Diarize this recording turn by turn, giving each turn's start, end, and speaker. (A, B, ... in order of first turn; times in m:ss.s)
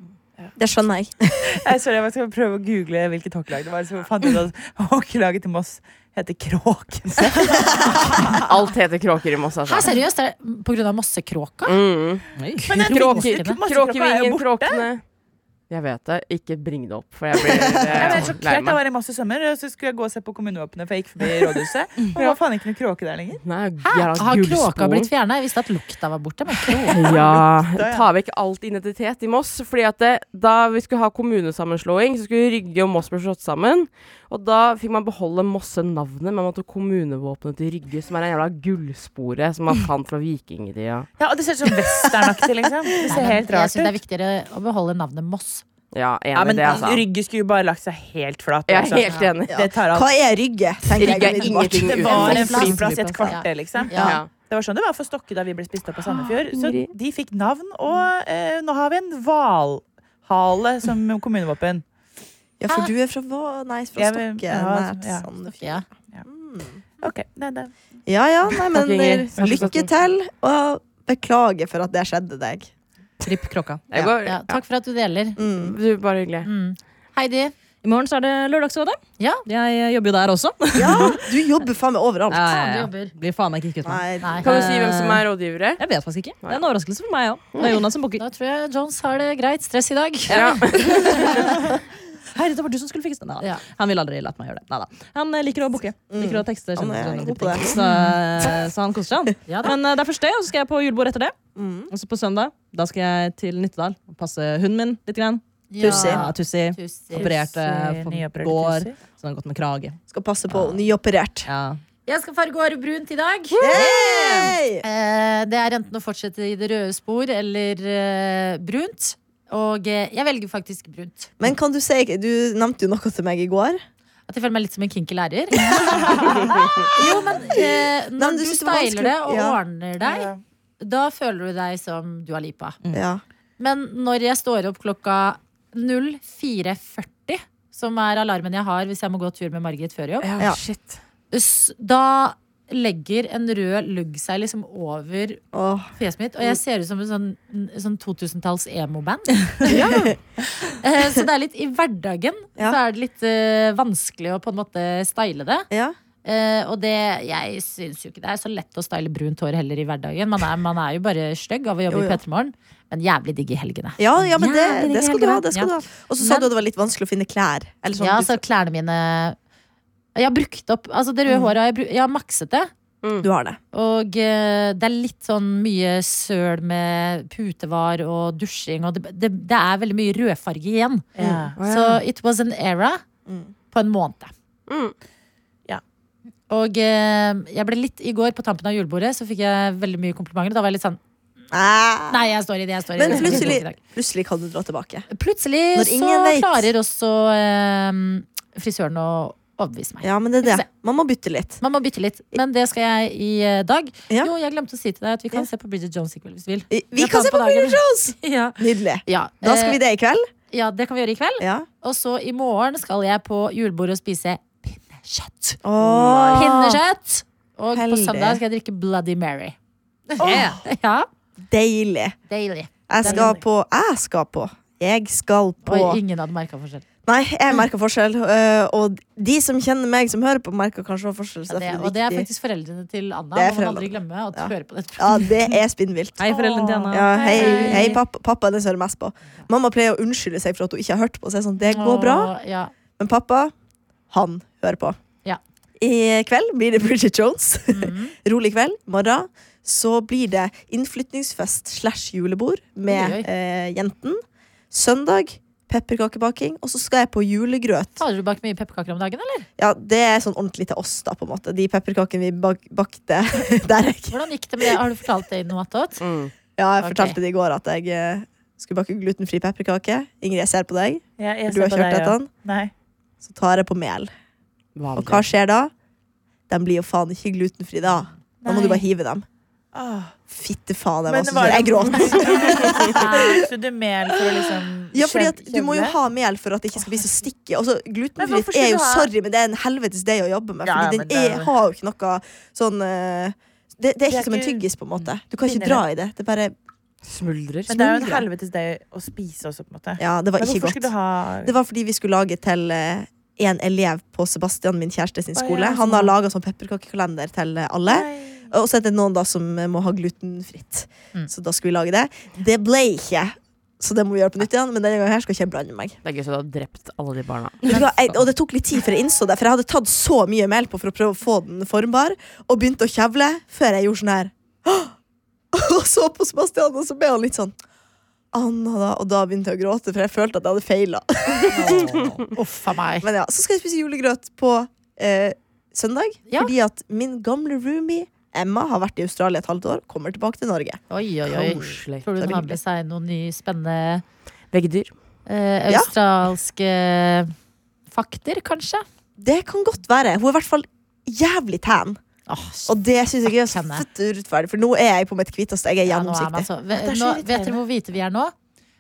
0:00.6-0:01.6 A
0:01.5-0:08.5 B
0:08.3-0:09.9 C
0:09.7-0:11.8 D
0:11.6-0:15.0 C
0:12.4-0:12.9 E
0:12.7-0:14.9 B
0:12.7-0:13.6 D
0:15.7-0:18.8 C
0:17.5-0:18.1 A
0:17.8-0:23.4 B
0:18.0-0:18.2 D
0:23.4-0:25.1 C
0:23.8-0:27.0 D
0:26.9-0:28.0 B
0:26.9-0:41.1 C
0:41.2-0:44.0 B
0:43.0-0:45.6 D
0:45.9-0:47.0 C
0:46.3-0:50.1 B
0:48.7-0:49.6 C
0:49.5-0:52.1 A
0:51.0-0:53.1 C
0:51.0-1:01.8 B
0:52.0-0:54.2 D
0:52.7-0:53.2 E
0:54.0-0:54.3 C
0:56.5-0:56.8 C
1:02.6-1:06.8 A
1:04.0-1:05.3 B
1:05.5-1:05.8 D
1:07.0-1:07.8 B
1:08.1-1:12.7 A
1:08.7-1:09.9 C
1:13.2-1:13.8 E
1:13.9-1:14.6 C
1:14.2-1:15.4 D
1:15.4-1:15.8 A
1:15.6-1:16.5 C
1:16.4-1:17.5 D
1:17.8-1:21.2 E
1:20.8-1:22.6 A
1:22.3-1:25.2 E
1:22.5-1:23.1 D
1:23.8-1:24.6 A
1:24.4-1:25.8 C
1:25.8-1:28.2 E
1:28.2-1:30.5 D
1:30.3-1:31.8 E
1:30.3-1:31.5 C
1:31.3-1:31.6 D
1:32.3-1:41.3 E
1:36.1-1:37.8 A
1:37.8-1:38.1 D
1:39.5-1:39.8 D
1:41.6-1:41.9 A
1:41.9-1:50.0 E
1:45.7-1:47.3 D
1:45.8-1:46.2 A
1:47.1-1:49.0 B
1:50.1-1:51.5 A
1:50.5-1:50.8 E
1:51.5-1:51.8 E
1:52.1-1:53.7 D
1:53.6-1:54.6 E
1:53.6-1:54.8 A
1:54.8-2:01.4 D
2:01.4-2:03.8 A
2:04.3-2:12.8 D
2:06.4-2:06.7 B
2:07.0-2:09.6 A
2:10.0-2:10.4 B
2:12.9-2:13.2 A
2:13.6-2:20.3 D
2:20.2-2:21.0 C
2:21.3-2:25.4 D
2:25.5-2:25.9 A
2:26.0-2:29.8 D
2:29.6-2:30.2 A
2:30.7-2:35.7 D
2:35.7-2:36.0 A
2:36.2-2:46.5 D
2:41.9-2:42.2 A
2:44.0-2:48.4 A
2:48.0-2:49.4 D
2:50.2-2:52.7 D
2:51.3-2:51.6 A
2:53.2-2:53.6 A
2:53.7-3:03.0 D
3:01.2-3:01.6 B
3:01.2-3:01.5 A
3:01.6-3:02.0 C
3:03.3-3:03.5 A
3:03.7-3:04.3 D
3:04.7-3:05.0 C
3:06.5-3:11.0 D
3:11.5-3:12.3 A
3:12.1-3:13.8 D
3:13.0-3:15.1 A
3:15.1-3:20.7 D
3:15.7-3:16.7 A
3:20.0-3:21.6 A
3:21.6-3:29.8 D
3:26.7-3:30.3 A
3:30.5-3:35.6 D
3:31.4-3:31.7 A
3:35.6-3:36.8 A
3:35.8-3:36.5 C
3:36.3-3:39.6 D
3:37.7-3:38.4 A
3:40.1-3:41.1 D
3:40.2-3:40.6 E
3:41.5-3:42.2 A
3:42.3-3:43.4 D
3:42.9-3:46.0 A
3:43.0-3:43.3 B
3:45.6-3:46.8 D
3:47.1-3:52.3 A
3:51.5-3:55.3 D
3:53.4-4:02.3 A
3:56.2-3:57.9 E
3:56.3-3:58.0 D
4:01.7-4:02.7 D
4:03.0-4:03.5 A
4:04.1-4:05.0 A
4:05.8-4:18.0 A
4:07.7-4:08.1 D
4:12.9-4:13.3 D
4:18.0-4:19.5 D
4:19.6-4:24.8 A
4:24.1-4:26.0 D
4:26.0-4:26.3 C
4:26.6-4:32.3 A
4:26.8-4:27.2 D
4:31.2-4:32.7 B
4:33.2-4:34.1 A
4:34.8-4:35.3 C
4:35.0-4:35.7 A
4:36.5-4:39.2 A
4:38.5-4:38.8 B
4:39.7-4:40.2 B
4:40.3-4:43.5 A
4:41.1-4:46.0 B
4:44.9-4:56.6 A
4:48.2-4:49.1 B
4:50.6-4:51.5 B
4:54.1-4:54.6 B
4:55.4-4:55.8 B
4:57.0-4:58.2 C
4:57.7-5:01.5 B
5:00.0-5:00.9 A
5:01.4-5:16.0 A
5:05.4-5:06.1 B
5:07.9-5:08.5 B
5:16.0-5:17.8 C
5:17.7-5:24.9 A
5:25.5-5:27.6 A
5:28.3-5:32.2 A
5:31.5-5:33.1 D
5:33.0-5:42.6 A
5:40.9-5:44.0 D
5:41.5-5:42.0 C
5:44.5-5:44.9 C
5:45.3-5:47.3 D
5:47.9-5:48.8 D
5:49.2-5:52.0 A
5:52.3-5:53.9 D
5:52.7-5:56.5 A
5:55.9-5:58.3 D
5:56.8-5:57.6 B